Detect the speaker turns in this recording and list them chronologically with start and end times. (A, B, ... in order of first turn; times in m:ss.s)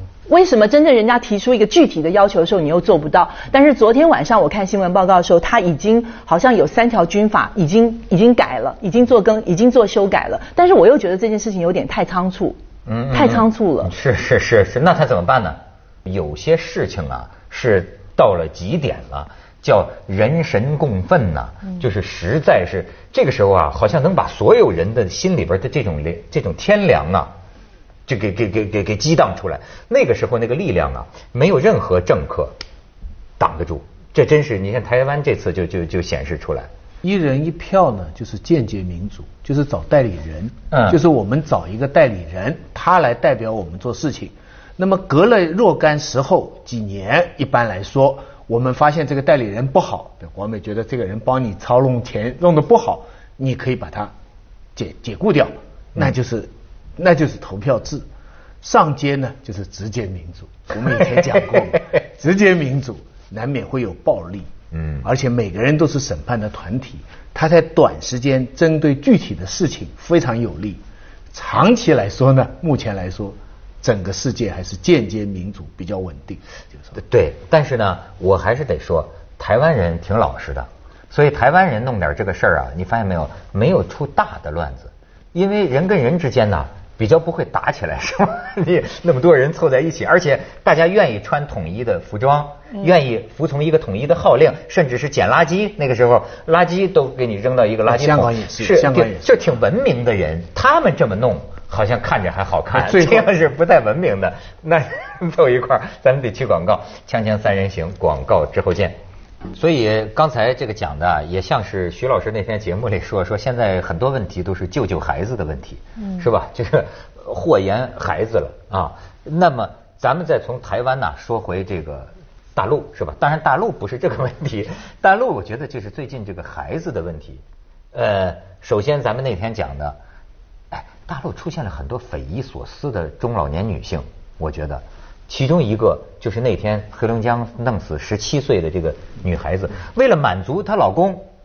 0:00.3-0:12.6 A
0:12.9-0:27.3 B
0:13.1-0:13.9 A
0:28.1-0:32.5 B
0:33.4-0:36.7 B
0:37.0-0:54.1 C
0:40.7-0:41.0 B
0:54.8-0:58.0 C
0:58.6-1:04.5 C
1:04.7-1:05.0 B
1:05.0-1:10.8 C
1:11.3-1:16.9 C
1:16.9-1:49.0 B
1:37.9-1:39.3 C
1:42.7-1:43.3 C
1:49.5-2:07.4 B
2:07.9-2:10.0 B
2:10.7-2:21.2 B